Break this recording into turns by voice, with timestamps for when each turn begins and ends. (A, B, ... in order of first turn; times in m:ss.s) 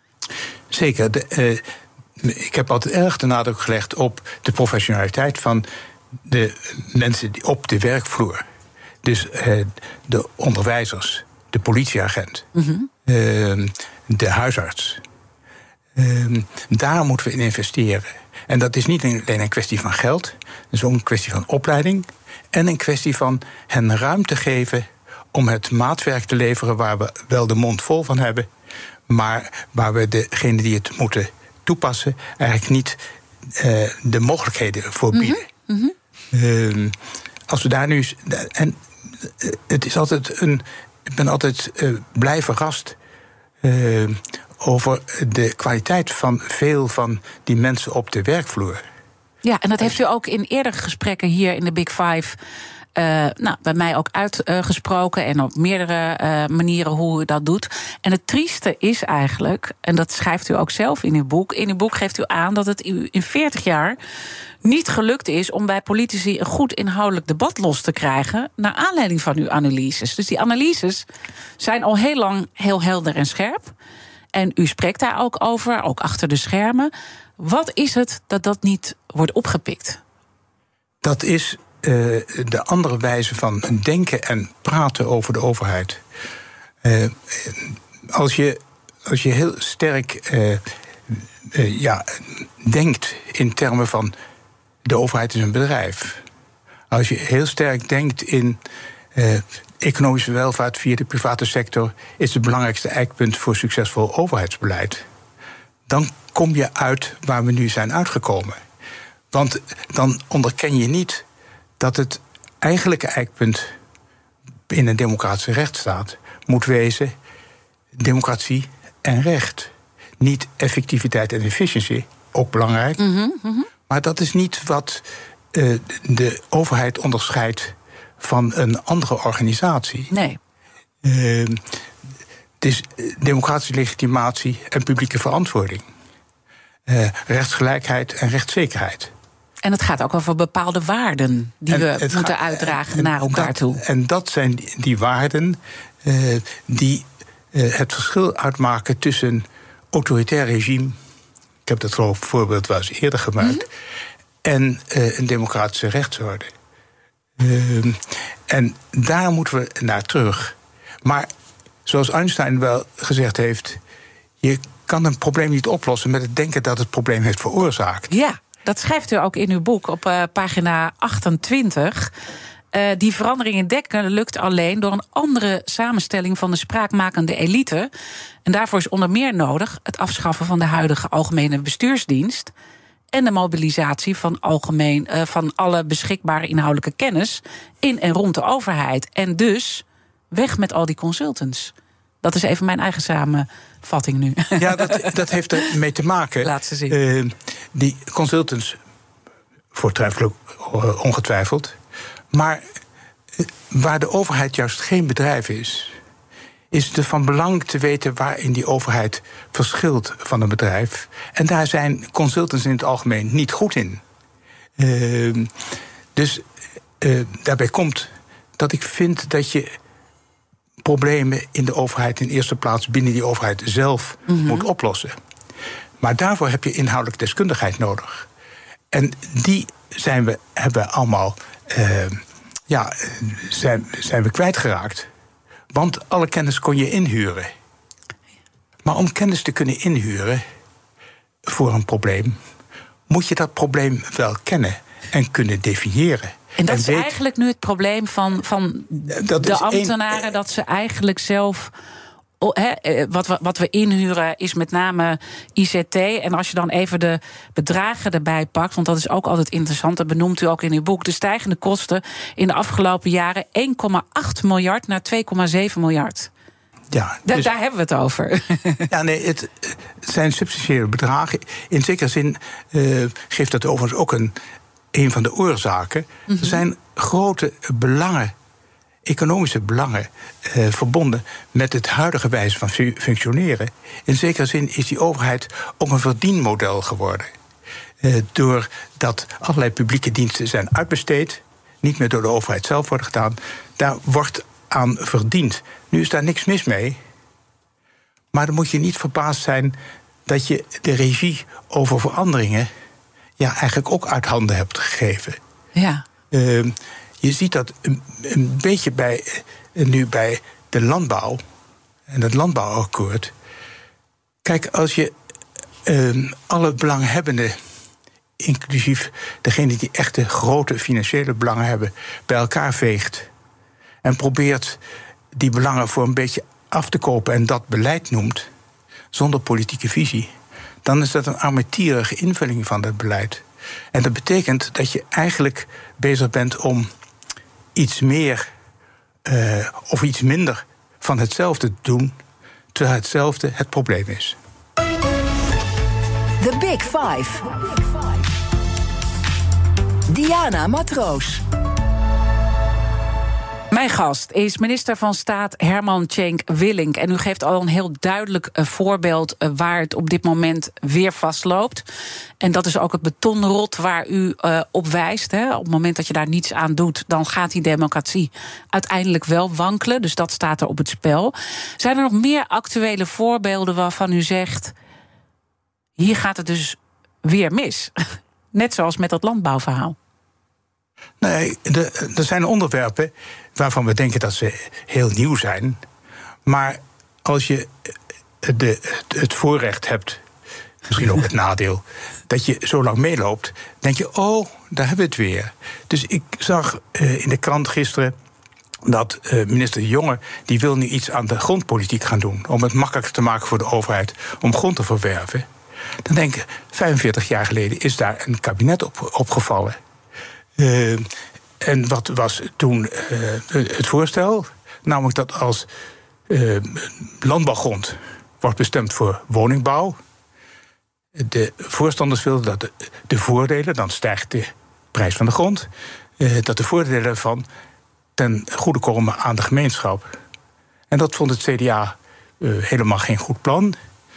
0:00.7-0:01.6 A
0:02.2-0:05.7 A
0:06.2-0:08.4 A
0:09.0-0:12.5 A
0:12.6-0:12.9 B
0:13.1-0:15.0 A
0:16.0-0:28.5 A
0:29.1-0:33.0 A
0:33.5-0:35.4 A
0:35.1-0:35.9 B
0:36.3-0:37.0 A
0:37.5-0:43.0 A
0:43.6-0:48.8 A
0:49.4-0:52.4 B
0:53.0-1:04.0 B
1:04.6-1:11.0 B
1:11.6-1:13.7 B
1:14.3-1:20.0 B
1:21.0-1:26.0 A
1:26.8-1:34.1 A
1:34.8-1:36.2 A
1:36.9-1:38.6 A
1:39.2-1:45.0 A
1:45.9-1:48.6 A
1:49.3-1:51.2 A
1:51.8-1:53.7 A
1:54.7-1:57.2 A
1:57.9-2:03.0 A
2:03.0-2:03.7 B
2:03.9-2:10.1 A
2:10.1-2:10.4 B
2:11.0-2:11.6 A
2:12.6-2:15.9 A
2:16.9-2:19.1 A
2:19.6-2:23.8 B
2:21.7-2:31.0 A
2:31.7-2:33.6 A
2:34.4-2:36.5 A
2:37.4-2:41.3 A
2:41.9-2:43.8 A
2:44.4-2:48.1 A
2:48.1-2:52.1 B
2:52.7-2:57.9 B
2:58.5-3:02.5 B
3:03.1-3:15.1 B
3:14.6-3:18.8 A
3:16.4-3:17.0 B
3:19.7-3:21.8 A
3:22.3-3:22.6 A
3:23.4-3:25.9 A
3:26.7-3:34.0 A
3:34.8-3:35.5 A
3:36.2-3:36.4 A
3:37.0-3:39.8 A
3:40.8-3:45.1 A
3:44.3-3:44.6 B
3:46.0-3:48.3 A
3:48.9-3:55.1 A
3:55.7-3:57.5 A
3:58.8-4:00.4 A
4:01.4-4:02.4 A
4:03.1-4:07.1 A
4:06.6-4:11.7 B
4:09.1-4:10.2 A
4:12.4-4:26.3 B
4:26.9-4:27.5 A
4:27.3-4:28.9 B
4:28.9-4:34.3 A
4:34.9-4:38.3 A
4:36.3-4:36.6 B
4:39.0-4:47.3 A
4:48.0-4:57.0 A
4:58.3-5:02.7 A
5:03.4-5:05.4 A
5:05.8-5:06.0 B
5:06.3-5:11.4 A
5:12.1-5:13.3 A
5:14.4-5:15.1 A
5:15.8-5:17.6 A
5:18.4-5:23.3 A
5:24.0-5:24.8 A
5:25.3-5:28.5 A
5:29.1-5:30.3 A
5:30.8-5:36.9 A
5:37.8-5:38.5 A
5:39.2-5:42.2 A
5:42.7-5:44.4 A
5:46.4-5:48.1 C
5:50.1-5:51.4 C
5:53.7-6:01.8 B
6:02.4-6:14.7 B
6:16.0-6:17.9 B
6:18.5-6:20.0 B
6:21.2-6:25.8 A
6:26.4-6:27.9 A
6:28.4-6:30.2 A
6:30.9-6:38.1 A
6:38.8-6:45.5 A
6:46.0-6:49.8 A
6:50.6-6:51.1 A
6:51.6-6:55.7 A
6:56.3-7:00.0 A
7:01.2-7:05.7 A
7:06.2-7:07.5 A
7:08.2-7:10.2 A
7:10.9-7:13.8 A